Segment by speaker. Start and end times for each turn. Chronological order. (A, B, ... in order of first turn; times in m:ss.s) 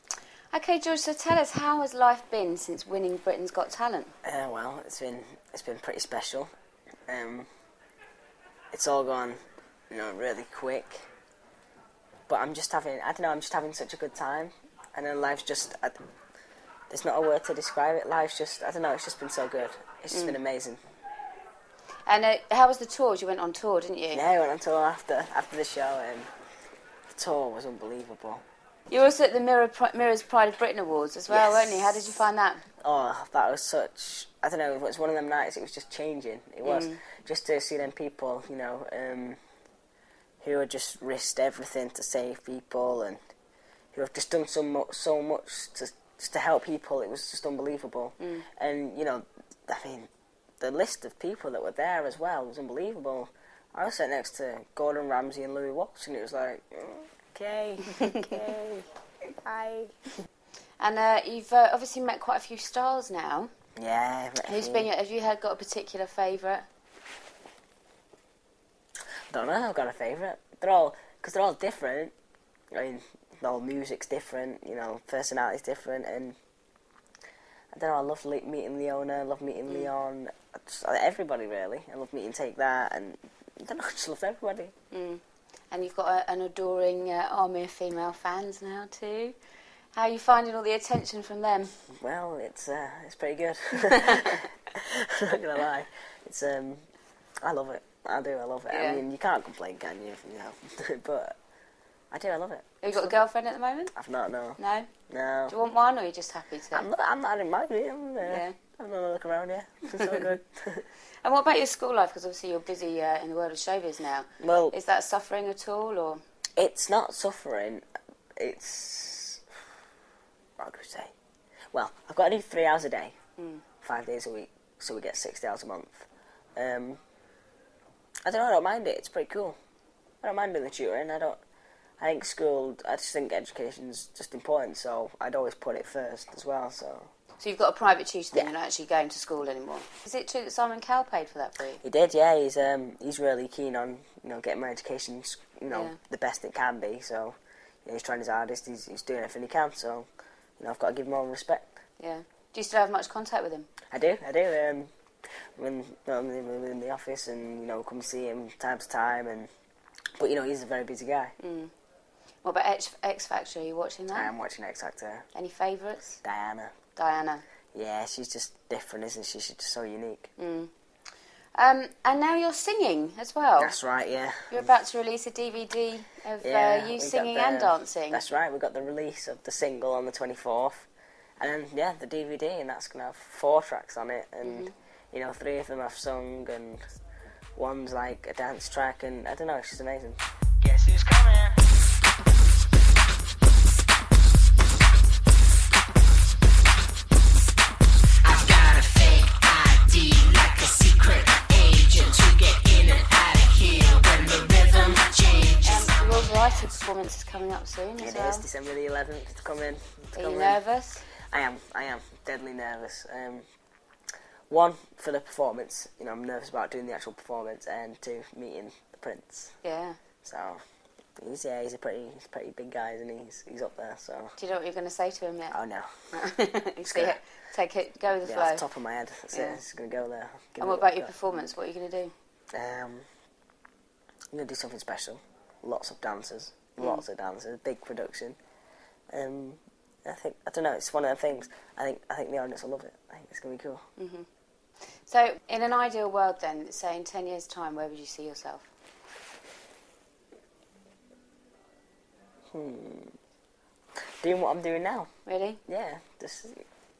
0:00.5-0:04.1 A
0:04.2-0:06.5 B
0:07.1-0:07.5 B
0:08.7-0:11.1 B
0:12.3-0:16.0 B
0:16.9-0:20.8 B
0:20.1-0:20.4 A
0:22.0-0:24.2 A
0:24.1-0:26.3 B
0:27.1-0:28.4 B
0:28.9-0:32.7 A
0:31.3-0:32.1 B
0:32.8-0:39.4 B
0:36.6-0:37.0 A
0:40.4-0:43.2 B
0:43.9-0:58.9 B
0:48.2-0:48.4 A
0:59.4-0:59.9 B
1:00.8-1:03.5 A
1:03.8-1:04.9 B
1:04.4-1:06.7 A
1:09.3-1:12.1 B
1:12.7-1:16.4 B
1:17.7-1:24.7 B
1:24.9-1:29.4 A
1:29.9-1:31.8 A
1:32.0-1:36.8 B
1:37.4-1:41.4 B
1:38.7-1:39.0 A
1:42.1-1:43.2 B
1:42.8-1:43.9 A
1:43.9-1:45.5 B
1:44.6-1:44.9 A
1:45.5-1:46.8 A
1:46.7-1:50.9 B
1:48.2-1:48.6 A
1:51.2-1:56.2 A
1:54.4-1:54.7 B
1:56.6-1:57.8 B
1:58.4-1:59.4 B
2:00.6-2:01.1 B
2:01.7-2:03.2 B
2:03.4-2:03.6 A
2:03.8-2:07.0 B
2:08.2-2:09.6 B
2:10.2-2:11.4 B
2:12.0-2:17.1 B
2:17.4-2:21.8 A
2:21.8-2:31.7 B
2:25.7-2:26.0 A
2:32.0-2:33.7 A
2:33.9-2:34.9 B
2:35.6-2:39.5 B
2:40.2-2:41.3 B
2:41.4-2:41.7 A
2:42.4-2:44.3 A
2:44.1-2:45.3 B
2:45.3-2:46.2 A
2:46.2-2:46.7 B
2:47.0-2:47.4 A
2:47.7-2:50.3 B
2:50.4-2:50.7 A
2:51.5-2:53.8 A
2:53.6-2:54.7 B
2:54.5-2:58.2 A
2:56.4-3:06.8 B
3:04.4-3:04.7 A
3:07.6-3:11.6 B
3:18.2-3:25.6 B
3:25.6-3:28.4 A
3:28.0-3:33.4 B
3:30.1-3:31.0 A
3:34.5-3:39.6 B
3:39.6-3:40.0 A
3:40.2-3:40.6 B
3:41.2-3:44.4 B
3:44.4-3:45.6 A
3:45.5-3:46.2 B
3:46.1-3:48.7 A
3:46.8-3:47.3 B
3:48.2-3:51.1 B
3:49.3-3:49.6 A
3:50.6-3:52.1 A
3:52.5-3:53.1 B
3:54.3-3:58.4 B
3:56.8-3:57.0 A
3:59.1-4:03.8 B
4:04.0-4:04.3 A
4:05.0-4:08.7 A
4:12.5-4:13.2 B
4:14.2-4:15.1 B
4:15.2-4:15.6 A
4:15.6-4:16.6 B